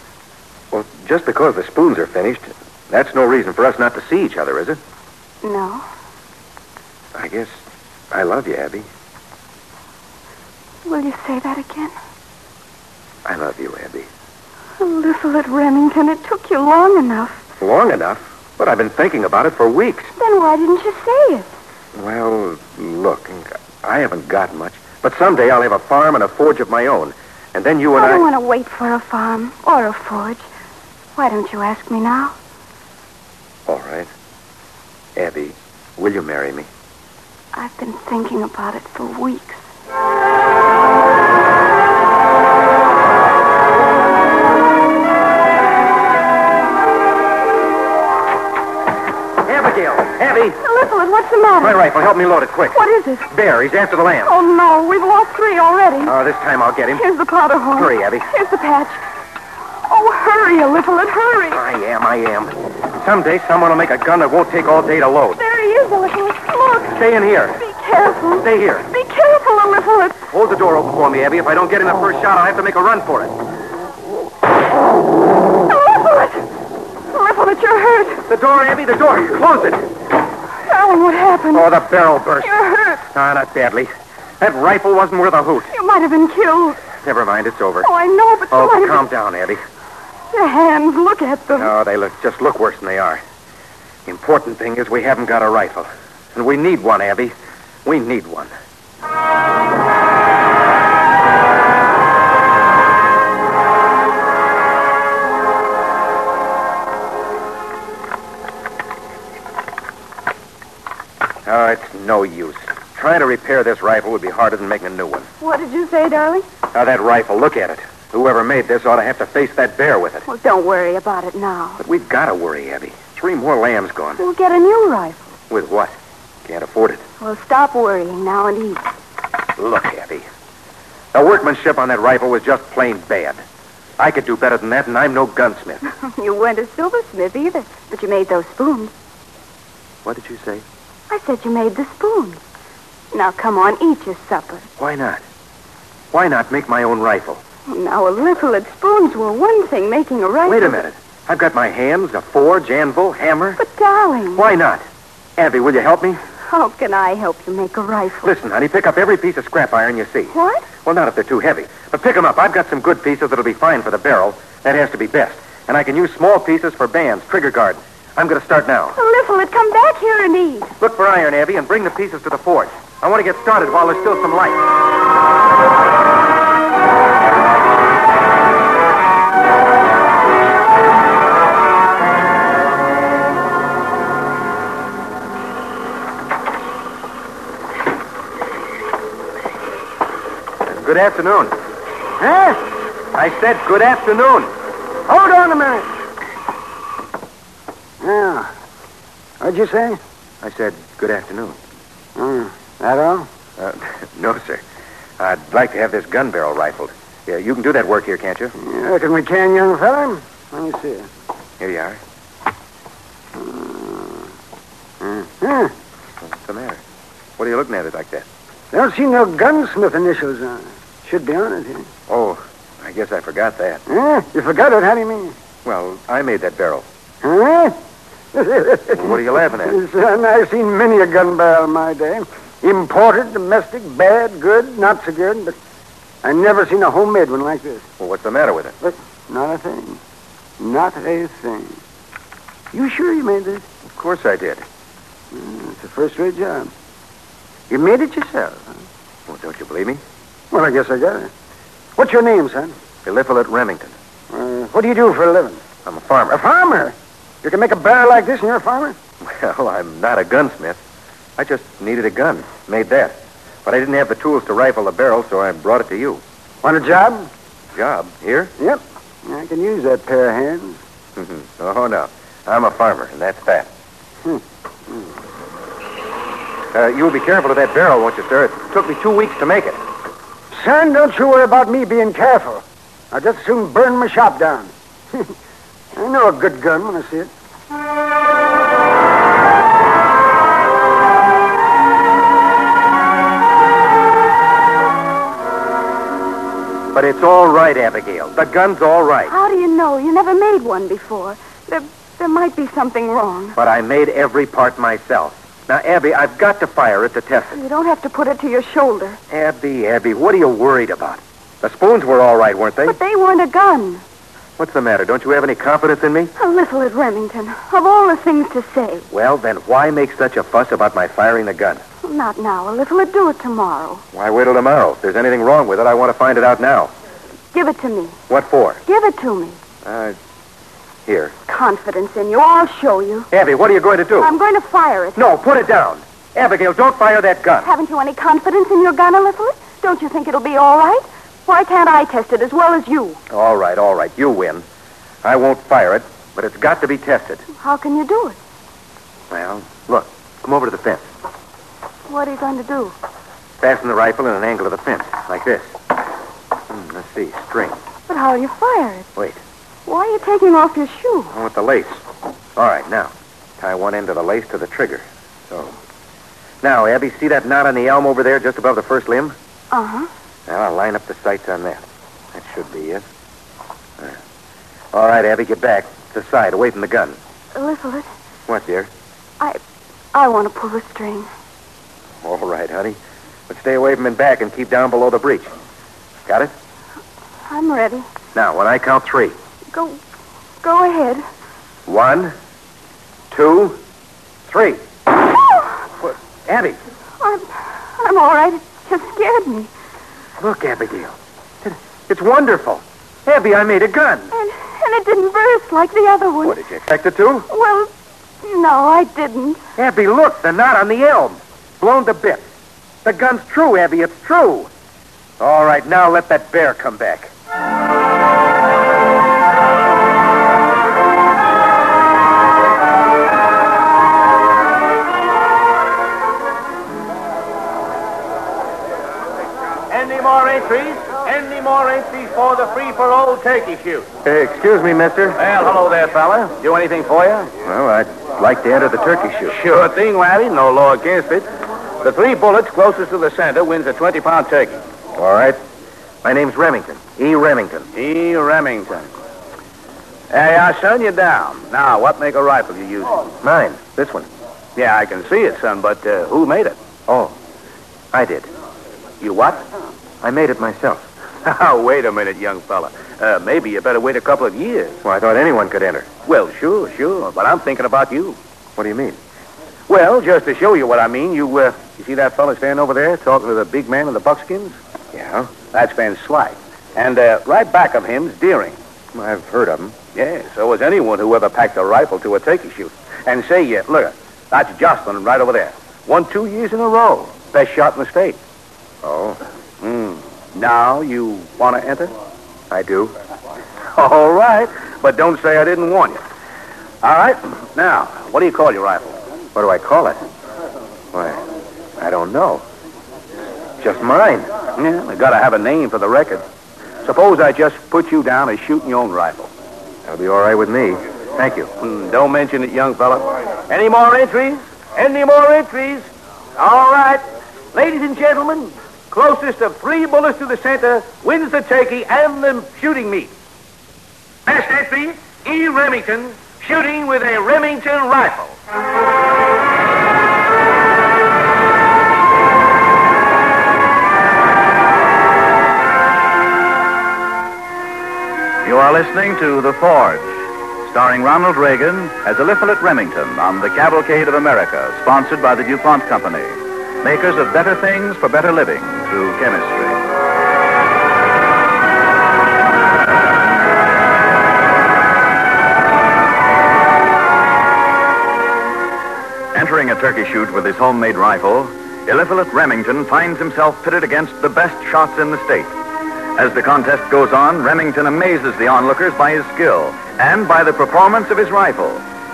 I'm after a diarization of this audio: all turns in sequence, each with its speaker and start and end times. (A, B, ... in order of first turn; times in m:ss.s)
0:00.7-0:04.8 A
0:05.4-0:05.8 B
0:07.2-0:07.6 A
0:08.1-0:08.9 A
0:10.9-0:11.9 B
0:13.2-0:14.1 A
0:14.8-0:17.4 B
0:17.6-0:20.1 A
0:20.2-0:21.5 B
0:22.0-0:28.3 A
0:28.0-0:30.5 B
0:31.2-0:32.4 B
0:33.7-0:34.1 A
0:35.2-0:36.7 A
0:37.5-0:39.7 B
0:49.4-0:50.6 A
0:50.6-0:51.8 B
0:51.6-0:54.4 A
0:52.7-0:53.3 B
0:54.2-0:56.2 B
0:56.0-0:57.0 A
0:57.0-0:59.0 B
0:57.7-0:58.3 A
0:59.9-1:01.6 B
1:01.5-1:05.4 A
1:05.4-1:07.0 B
1:06.9-1:07.6 A
1:07.6-1:10.2 B
1:08.4-1:08.9 A
1:10.3-1:13.4 A
1:15.7-1:16.5 B
1:17.1-1:18.2 B
1:18.3-1:19.9 A
1:20.7-1:21.7 B
1:21.5-1:25.7 A
1:22.4-1:23.0 B
1:25.7-1:26.8 B
1:26.9-1:27.9 A
1:27.8-1:29.1 B
1:28.5-1:29.6 A
1:30.3-1:31.7 B
1:31.6-1:33.2 A
1:34.1-1:38.5 A
1:51.4-1:55.3 A
1:55.4-1:56.4 B
1:56.7-2:00.3 A
2:00.3-2:01.8 B
2:01.8-2:04.2 A
2:04.2-2:05.2 B
2:05.5-2:07.0 A
2:07.2-2:08.8 B
2:09.6-2:10.2 A
2:11.1-2:13.4 A
2:14.0-2:15.8 A
2:16.0-2:18.9 B
2:20.0-2:20.6 A
2:21.1-2:22.4 B
2:23.1-2:24.7 B
2:24.8-2:25.2 A
2:26.1-2:27.4 A
2:27.7-2:30.8 B
2:30.4-2:33.6 A
2:33.6-2:34.4 B
2:34.3-2:34.8 A
2:35.4-2:36.2 A
2:36.5-2:38.3 B
2:38.2-2:49.0 A
2:40.3-2:40.7 B
2:49.0-2:50.7 B
2:50.8-2:54.7 A
3:10.6-3:11.6 A
3:12.2-3:12.6 C
3:13.1-3:14.5 A
3:15.1-3:15.9 C
3:18.0-3:18.5 C
3:19.4-3:20.0 C
3:20.4-3:21.6 A
3:22.2-3:23.3 C
3:23.6-3:24.6 A
3:25.2-3:28.5 A
3:28.6-3:31.1 C
3:31.6-3:32.0 A
3:33.4-3:34.3 C
3:35.0-3:35.7 C
3:36.2-3:36.8 A
3:37.4-3:38.3 A
3:38.7-3:41.9 C
3:42.1-3:43.8 A
3:43.9-3:45.3 C
3:45.6-3:46.9 A
3:47.2-3:47.8 C
3:48.3-3:55.6 C
3:49.0-3:49.8 A
3:56.2-3:57.9 C
3:58.0-3:58.8 A
3:58.8-4:00.0 C
4:00.6-4:01.8 C
4:02.7-4:03.7 C
4:03.9-4:04.6 A
4:05.3-4:06.7 C
4:07.7-4:08.7 C
4:09.3-4:10.0 A
4:10.5-4:11.3 C
4:12.0-4:12.8 C
4:13.0-4:14.0 A
4:14.3-4:15.6 C
4:15.8-4:16.4 A
4:16.3-4:19.0 C
4:19.2-4:20.8 A
4:21.4-4:26.2 A
4:26.6-4:27.3 C
4:27.7-4:28.5 A
4:28.6-4:30.8 C
4:31.2-4:33.7 A
4:34.2-4:35.1 C
4:36.7-4:39.8 A
4:40.5-4:45.3 C
4:46.0-4:47.3 C
4:56.9-4:59.3 A
4:59.3-5:03.6 B
5:03.6-5:07.6 A
5:07.5-5:09.2 B
5:09.3-5:13.0 A
5:12.8-5:14.0 B
5:14.6-5:16.3 A
5:16.4-5:19.1 B
5:19.1-5:21.8 A
5:22.0-5:24.0 B
5:24.1-5:26.9 A
5:27.5-5:28.2 B
5:28.3-5:28.8 A
5:28.9-5:29.6 B
5:29.8-5:30.2 A
5:31.1-5:31.3 A
5:31.5-5:33.3 B
5:33.3-5:34.3 A
5:34.2-5:35.2 B
5:35.2-5:37.7 A
5:37.6-5:43.2 B
5:43.3-5:44.6 A
5:45.2-5:47.4 A
5:47.6-5:48.4 B
5:49.3-5:51.0 A
5:52.1-5:53.0 B
5:53.6-5:55.8 A
5:56.7-5:57.8 A
5:58.1-5:59.1 B
5:59.2-5:59.4 A
5:59.9-6:01.3 B
6:01.3-6:02.0 A
6:02.6-6:05.8 A
6:06.6-6:09.4 A
6:09.7-6:10.1 B
6:10.5-6:13.0 A
6:14.9-6:17.2 A
6:17.6-6:18.1 B
6:18.5-6:18.9 A
6:20.1-6:21.3 B
6:22.2-6:25.5 A
6:26.3-6:26.5 A
6:27.5-6:28.1 B
6:28.3-6:29.4 A
6:29.7-6:30.0 B
6:30.6-6:31.2 B
6:31.9-6:32.4 A
6:33.3-6:33.8 A
6:34.5-6:34.8 A
6:36.0-6:36.8 A
6:37.2-6:39.7 B
6:40.4-6:44.3 A
6:44.3-6:46.6 B
6:46.4-6:47.5 A
6:47.5-6:47.9 B
6:48.4-6:49.6 B
6:49.8-6:52.4 A
6:53.0-6:54.7 A
6:55.4-6:57.3 A
7:09.9-7:14.1 D
7:14.2-7:15.4 A
7:15.4-7:17.5 D
7:17.6-7:19.6 A
7:19.5-7:21.5 D
7:22.0-7:24.8 D
7:25.2-7:25.6 A
7:26.2-7:27.9 A
7:27.9-7:29.1 D
7:30.3-7:33.3 D
7:33.4-7:34.3 A
7:34.8-7:36.8 D
7:37.1-7:37.4 A
7:38.1-7:38.5 A
7:39.2-7:39.7 D
7:40.2-7:41.0 A
7:41.4-7:45.0 D
7:45.0-7:46.1 A
7:46.2-7:48.4 D
7:48.8-7:49.2 A
7:49.9-7:54.8 D
7:55.1-7:55.5 A
7:55.7-7:58.8 D
7:59.1-8:00.0 A
8:00.1-8:08.4 D
8:09.0-8:09.4 A
8:09.8-8:12.1 D
8:12.7-8:13.2 A
8:14.0-8:16.2 D
8:17.0-8:19.2 D
8:19.6-8:20.2 A
8:21.1-8:21.4 A
8:22.0-8:22.6 A
8:23.8-8:24.5 A
8:24.7-8:26.4 D
8:27.0-8:29.5 D
8:30.1-8:31.7 A
8:31.8-8:43.3 D
8:44.5-8:48.6 D
8:58.6-9:10.0 E
9:19.5-9:25.7 E
9:26.4-9:32.0 E